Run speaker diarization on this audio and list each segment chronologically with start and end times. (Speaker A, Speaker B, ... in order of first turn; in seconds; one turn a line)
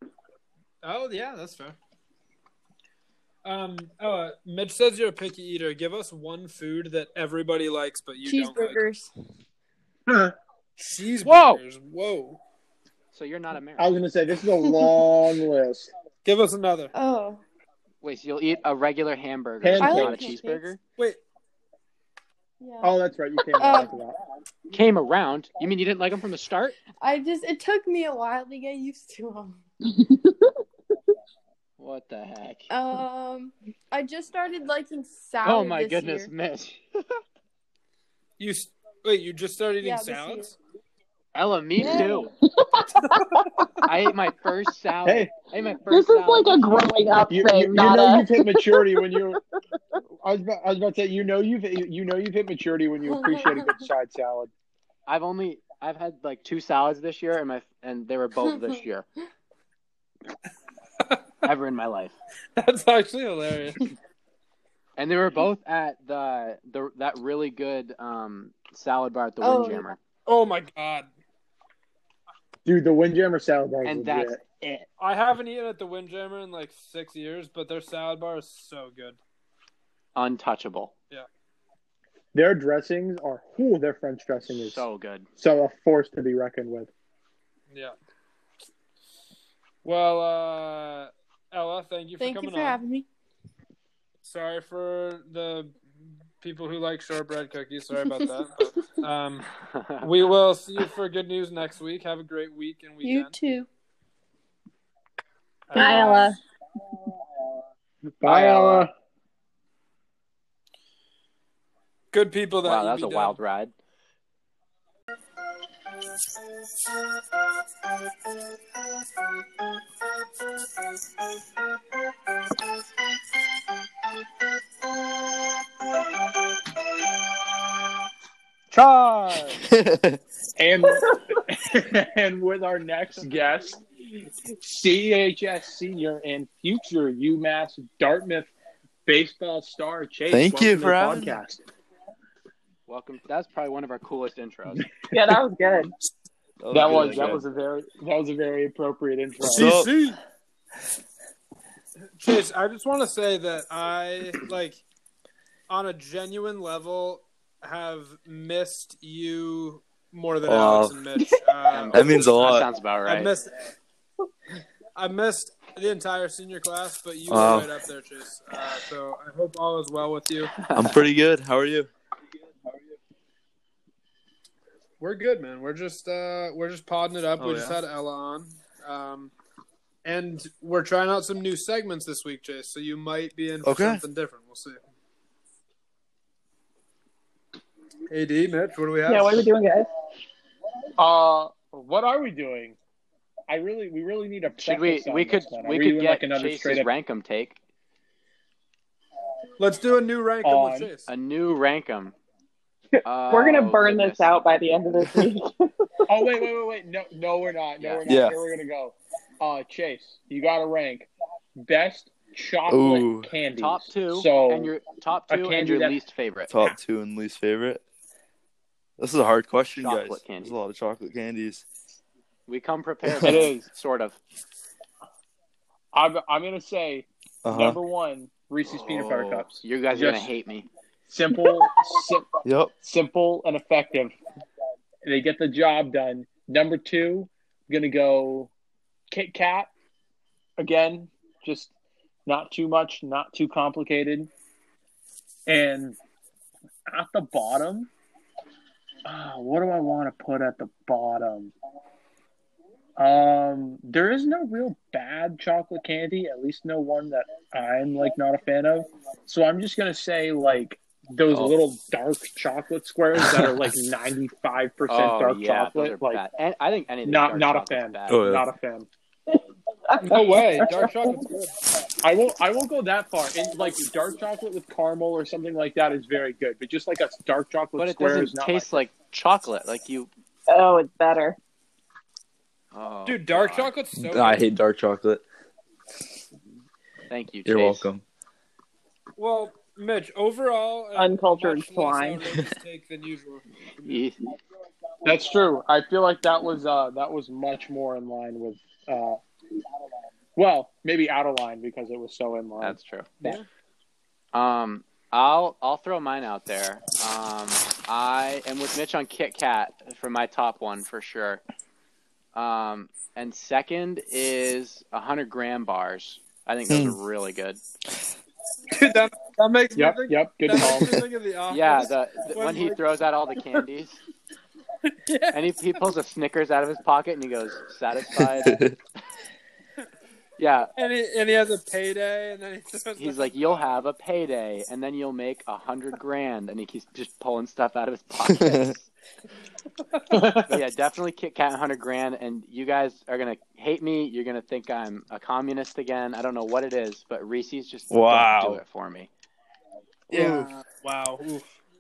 Speaker A: 0.8-1.8
Speaker A: 3.4-8.8
Speaker B: 8.2-9.1
Speaker C: 10.1-10.3
Speaker A: 10.8-12.4
Speaker D: 11.2-11.6
Speaker D: 13.1-14.0
Speaker C: 13.8-15.9
Speaker A: 16.2-16.9
Speaker B: 16.9-17.4
Speaker D: 18.0-20.8
Speaker C: 19.6-20.4
Speaker B: 19.8-20.7
Speaker B: 22.6-22.9
Speaker C: 22.8-24.1
Speaker B: 23.6-24.0
Speaker D: 24.7-26.8
Speaker B: 27.0-29.6
Speaker E: 29.9-30.5
Speaker D: 31.8-32.7
Speaker B: 32.7-36.3
Speaker D: 35.4-37.2
Speaker A: 38.4-40.6
Speaker B: 39.8-40.5
Speaker D: 41.3-42.3
Speaker B: 41.8-42.3
Speaker E: 41.8-42.1
Speaker E: 42.6-43.5
Speaker D: 43.9-46.9
Speaker C: 45.0-45.3
Speaker E: 45.9-49.4
Speaker C: 47.3-49.4
Speaker C: 50.2-54.5
Speaker B: 53.1-53.7
Speaker D: 55.1-59.1
Speaker D: 61.4-62.1
Speaker A: 62.6-63.9
Speaker D: 65.0-70.0
Speaker B: 69.4-69.9
Speaker A: 70.3-71.1
Speaker C: 72.7-74.4
Speaker D: 73.8-74.9
Speaker A: 75.0-79.2
Speaker D: 80.2-80.9
Speaker C: 82.3-84.8
Speaker D: 84.5-85.3
Speaker C: 85.4-86.9
Speaker A: 89.8-92.8
Speaker B: 92.2-93.1
Speaker A: 94.2-95.8
Speaker A: 96.4-103.3
Speaker D: 99.7-100.1
Speaker B: 103.0-103.7
Speaker A: 105.7-106.3
Speaker E: 105.8-106.4
Speaker B: 105.8-106.3
Speaker C: 108.2-108.9
Speaker D: 108.2-108.9
Speaker A: 112.1-113.4
Speaker D: 112.6-113.7
Speaker A: 128.7-129.6
Speaker F: 129.6-130.2
Speaker C: 130.6-133.8
Speaker C: 134.6-138.5
Speaker C: 139.1-141.6
Speaker F: 140.3-141.4
Speaker D: 142.9-144.9
Speaker E: 145.1-145.9
Speaker F: 146.6-147.4
Speaker C: 146.7-149.8
Speaker A: 149.5-150.2
Speaker F: 149.5-149.9
Speaker A: 152.2-154.8
Speaker A: 155.7-162.3
Speaker F: 160.4-161.0
Speaker D: 161.7-163.3
Speaker F: 161.9-162.7
Speaker A: 163.1-163.5
Speaker A: 165.0-170.6
Speaker F: 167.3-167.7
Speaker D: 170.6-171.0
Speaker F: 170.7-171.9
Speaker A: 175.0-179.3
Speaker F: 177.4-177.8
Speaker A: 180.0-184.8
Speaker F: 183.6-184.0
Speaker A: 188.1-189.5
Speaker E: 189.1-189.9
Speaker C: 191.0-192.8
Speaker C: 193.5-196.9
Speaker D: 194.6-197.6
Speaker A: 199.6-201.1
Speaker C: 200.4-200.9
Speaker D: 201.1-202.2
Speaker E: 203.0-205.7
Speaker D: 203.1-204.3
Speaker C: 206.1-214.7
Speaker D: 207.8-208.1
Speaker F: 208.1-208.4
Speaker F: 212.7-213.3
Speaker D: 213.6-216.6
Speaker C: 215.3-216.0
Speaker F: 216.5-217.8
Speaker F: 219.0-221.7
Speaker D: 219.8-220.6
Speaker D: 222.5-224.2
Speaker C: 223.2-223.7
Speaker C: 225.9-230.3
Speaker F: 227.4-227.8
Speaker D: 228.7-230.7
Speaker C: 231.1-232.3
Speaker F: 232.4-232.7
Speaker C: 232.8-234.2
Speaker C: 235.0-238.5
Speaker C: 239.1-239.7
Speaker C: 240.6-241.7
Speaker C: 242.3-244.3
Speaker C: 245.5-246.0
Speaker C: 246.9-247.9
Speaker C: 249.1-251.5
Speaker C: 253.0-266.2
Speaker F: 263.2-263.6
Speaker D: 264.9-268.2
Speaker C: 267.1-268.9
Speaker F: 268.1-268.5
Speaker E: 269.9-271.2
Speaker A: 270.0-271.5
Speaker C: 272.0-278.8
Speaker D: 277.8-280.1
Speaker E: 280.5-281.4
Speaker D: 282.7-283.7
Speaker A: 283.1-284.4
Speaker F: 284.0-285.2
Speaker D: 287.1-287.9
Speaker F: 287.5-288.0
Speaker A: 289.2-294.0
Speaker E: 291.0-292.3
Speaker D: 293.8-294.2
Speaker C: 295.1-299.2
Speaker C: 300.4-303.4
Speaker D: 302.6-303.1
Speaker D: 304.3-311.4
Speaker D: 312.3-317.6
Speaker F: 316.7-317.0
Speaker A: 318.7-322.8
Speaker C: 319.8-321.0
Speaker D: 321.5-324.0
Speaker A: 325.1-325.8
Speaker D: 325.3-328.6
Speaker F: 328.3-328.8
Speaker D: 330.4-330.7
Speaker A: 330.8-333.7
Speaker D: 333.0-338.9
Speaker F: 338.3-338.7
Speaker C: 340.1-340.6
Speaker D: 340.5-349.1
Speaker F: 347.9-348.6
Speaker F: 350.1-350.5
Speaker A: 350.1-351.5